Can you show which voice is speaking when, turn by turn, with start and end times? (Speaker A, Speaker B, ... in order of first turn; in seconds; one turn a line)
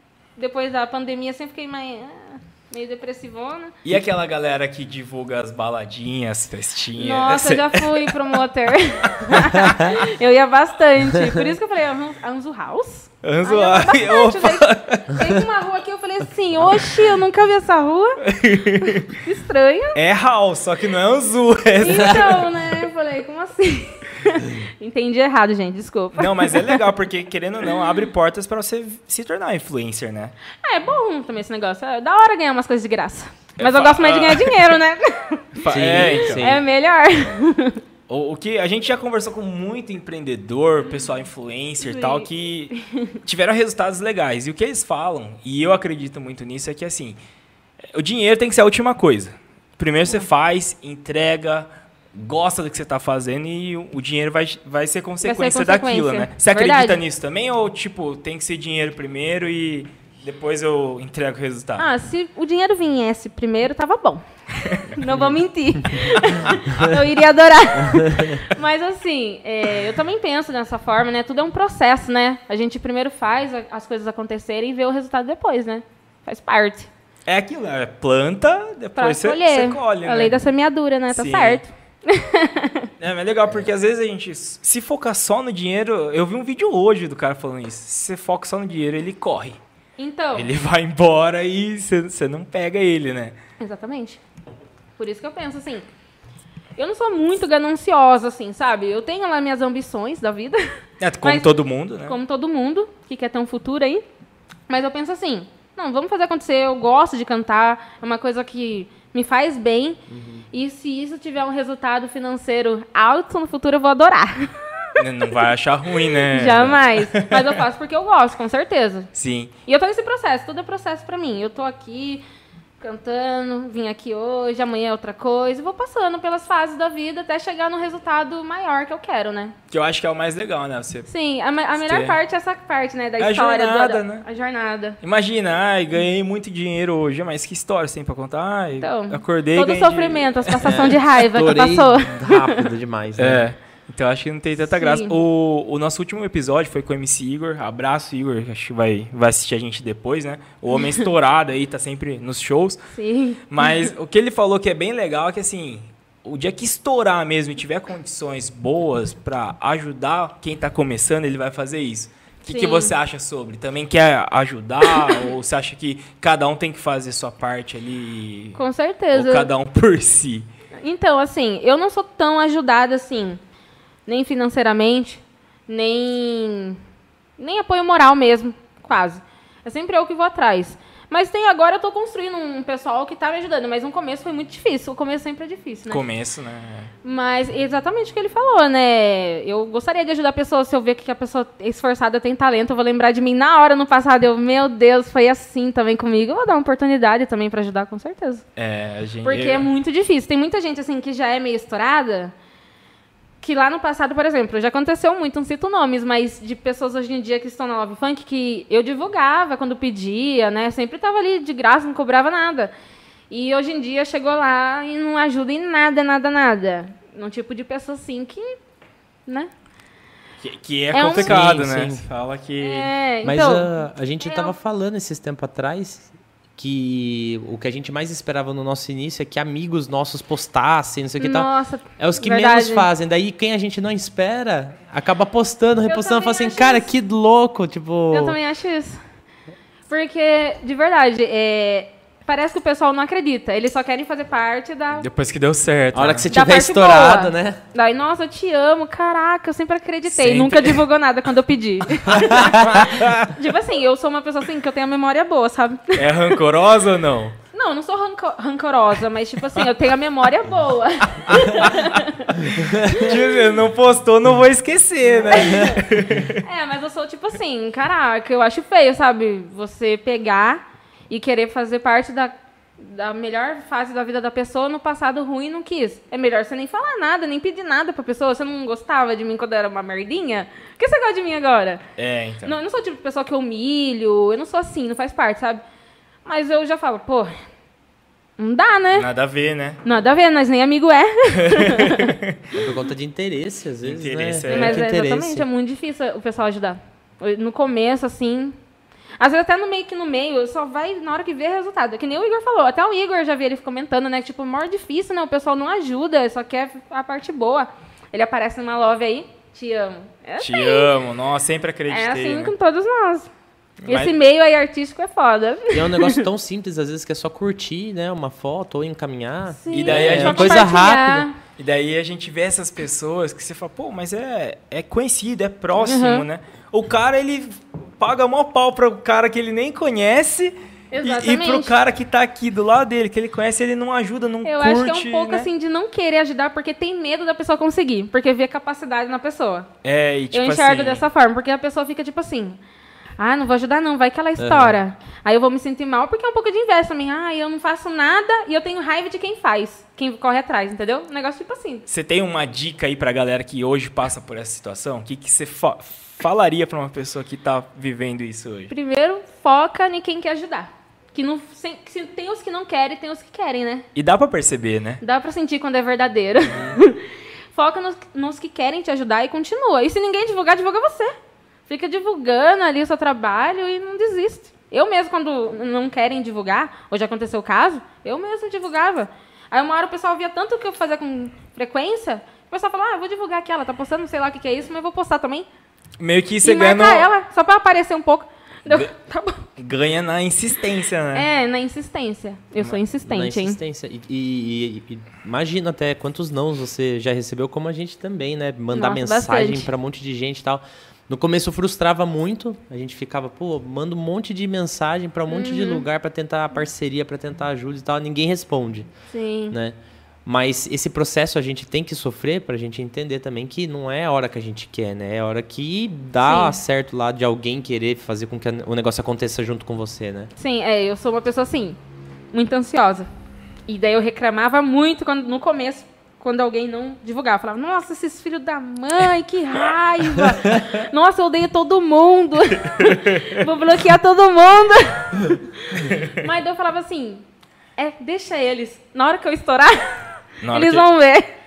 Speaker A: 0.3-3.8
Speaker B: 3.8-8.3
Speaker A: 7.0-18.2
Speaker B: 9.2-10.0
Speaker C: 11.2-11.4
Speaker B: 13.2-15.5
Speaker B: 18.2-19.2
Speaker A: 18.8-20.0
Speaker B: 19.9-22.5
Speaker A: 21.8-26.8
Speaker B: 26.1-30.3
Speaker A: 30.6-37.8
Speaker B: 33.6-34.8
Speaker B: 35.6-36.6
Speaker C: 35.6-36.6
Speaker B: 38.1-47.2
Speaker A: 41.8-43.2
Speaker B: 47.9-61.9
Speaker A: 55.2-57.0
Speaker A: 61.8-76.9
Speaker B: 66.2-66.9
Speaker C: 67.9-68.3
Speaker B: 77.2-80.4
Speaker A: 79.0-82.9
Speaker B: 81.1-81.6
Speaker B: 83.0-89.6
Speaker A: 90.0-90.5
Speaker B: 90.3-93.3
Speaker A: 93.6-94.2
Speaker A: 95.0-95.8
Speaker A: 96.8-101.5
Speaker B: 101.0-102.2
Speaker A: 102.0-104.0
Speaker A: 104.7-110.0
Speaker C: 110.1-110.5
Speaker A: 110.5-115.4
Speaker B: 115.0-117.6
Speaker A: 116.0-119.1
Speaker B: 119.1-119.5
Speaker A: 119.7-122.2
Speaker A: 122.8-129.5
Speaker B: 129.7-131.1
Speaker A: 131.1-135.0
Speaker B: 131.7-132.2
Speaker B: 133.2-134.2
Speaker B: 135.0-140.9
Speaker A: 138.8-142.7
Speaker C: 140.6-143.5
Speaker B: 143.2-152.8
Speaker A: 144.6-145.2
Speaker A: 150.7-151.0
Speaker A: 152.9-153.9
Speaker B: 153.5-168.6
Speaker A: 162.5-162.9
Speaker A: 164.9-165.3
Speaker A: 168.6-169.5
Speaker B: 169.1-170.4
Speaker A: 170.8-173.4
Speaker A: 174.1-176.8
Speaker A: 177.4-186.0
Speaker B: 185.9-186.9
Speaker A: 187.0-198.4
Speaker B: 198.6-199.7
Speaker A: 199.2-202.3
Speaker A: 203.4-212.7
Speaker A: 213.3-218.5
Speaker B: 220.4-222.9
Speaker A: 220.9-221.4
Speaker C: 221.1-222.0
Speaker A: 222.6-224.5
Speaker C: 223.2-238.4
Speaker A: 231.2-232.9
Speaker A: 235.9-236.9
Speaker A: 238.1-239.0
Speaker A: 239.9-245.1
Speaker B: 245.0-246.3
Speaker C: 245.9-247.6
Speaker A: 246.3-256.4
Speaker B: 250.1-250.8
Speaker C: 252.1-252.8
Speaker B: 252.2-253.3
Speaker B: 255.9-257.4
Speaker A: 257.5-263.4
Speaker B: 261.2-262.0
Speaker B: 262.5-266.4
Speaker A: 265.3-265.8
Speaker A: 266.4-281.8
Speaker B: 281.9-282.6
Speaker A: 282.4-285.6
Speaker A: 286.2-287.3
Speaker A: 288.4-289.1
Speaker B: 288.9-289.8
Speaker A: 289.8-292.1
Speaker B: 291.4-292.4
Speaker C: 292.5-295.5
Speaker B: 293.8-294.9
Speaker A: 294.5-298.6
Speaker A: 299.2-310.9
Speaker B: 310.4-312.5
Speaker A: 311.9-313.3
Speaker B: 313.8-314.1
Speaker A: 313.9-316.2
Speaker C: 315.7-321.3
Speaker A: 319.5-321.4
Speaker B: 319.7-320.7
Speaker B: 321.6-335.5
Speaker A: 325.8-326.2
Speaker A: 330.9-331.7
Speaker A: 334.4-339.7
Speaker B: 339.8-341.0
Speaker A: 340.3-342.6
Speaker A: 343.2-351.8
Speaker C: 344.4-344.8
Speaker B: 351.9-358.7
Speaker A: 358.7-363.8
Speaker B: 363.9-365.0
Speaker A: 365.0-371.1
Speaker C: 366.5-366.8
Speaker A: 371.7-385.5
Speaker B: 386.0-387.1
Speaker A: 386.4-389.5
Speaker B: 389.6-391.3
Speaker A: 391.1-393.6
Speaker C: 393.0-408.9
Speaker A: 398.7-399.7
Speaker A: 405.3-405.8
Speaker A: 409.1-409.6
Speaker C: 409.5-420.3
Speaker A: 416.2-416.6
Speaker A: 420.4-421.8
Speaker A: 422.3-423.1
Speaker A: 423.7-437.2
Speaker B: 432.6-433.4
Speaker B: 435.8-436.2
Speaker A: 437.8-441.3
Speaker B: 440.4-440.9